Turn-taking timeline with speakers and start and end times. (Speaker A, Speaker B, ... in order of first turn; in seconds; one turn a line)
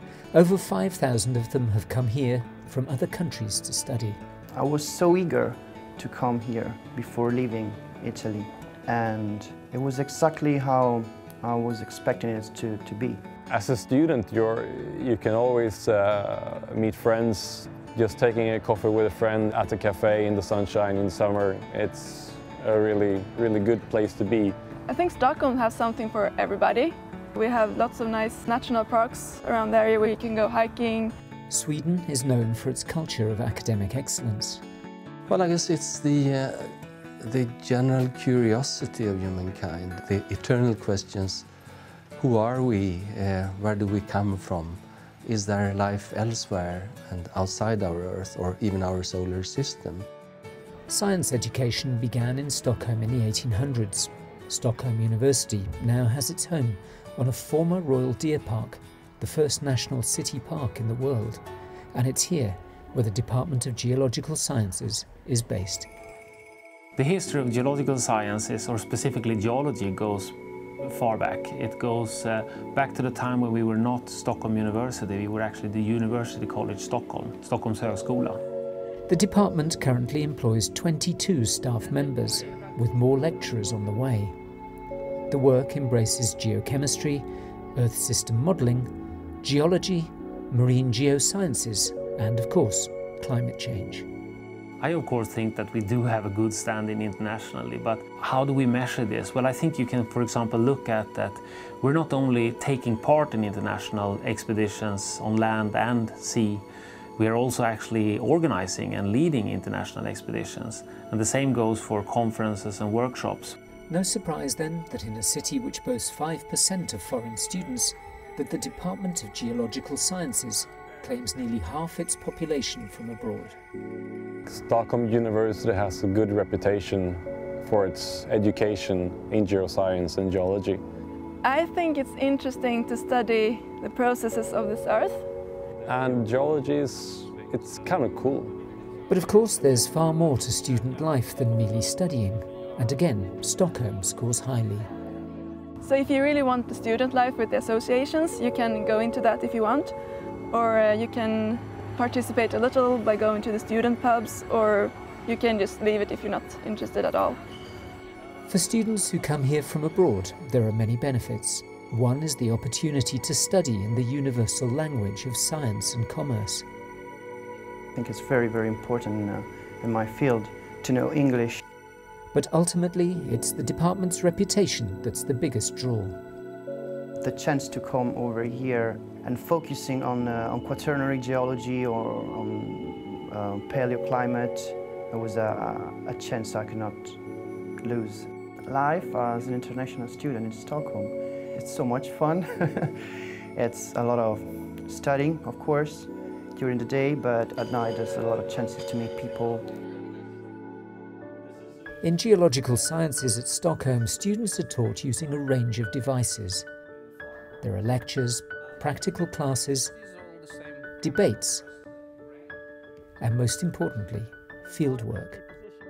Speaker A: 0.3-4.2
Speaker B: 4.5-13.2
Speaker C: 13.5-24.6
Speaker D: 24.9-31.1
Speaker A: 31.5-34.6
Speaker E: 35.3-41.5
Speaker E: 42.2-50.1
Speaker A: 50.9-61.4
Speaker A: 61.9-65.9
Speaker F: 67.0-78.4
Speaker A: 79.1-84.3
Speaker A: 85.3-88.9
Speaker A: 89.4-94.1
Speaker F: 94.8-106.6
Speaker F: 107.2-113.6
Speaker A: 113.9-123.6
Speaker C: 124.5-130.8
Speaker D: 131.4-135.2
Speaker C: 135.8-138.6
Speaker A: 139.1-144.9
Speaker D: 145.8-149.9
Speaker D: 150.5-157.4
Speaker A: 158.5-166.7
Speaker B: 167.9-171.6
Speaker A: 172.3-176.2
Speaker B: 177.2-187.2
Speaker B: 187.8-192.9
Speaker B: 193.6-199.7
Speaker A: 202.0-206.7
Speaker A: 207.6-209.9
Speaker A: 211.0-211.6
Speaker A: 213.2-215.4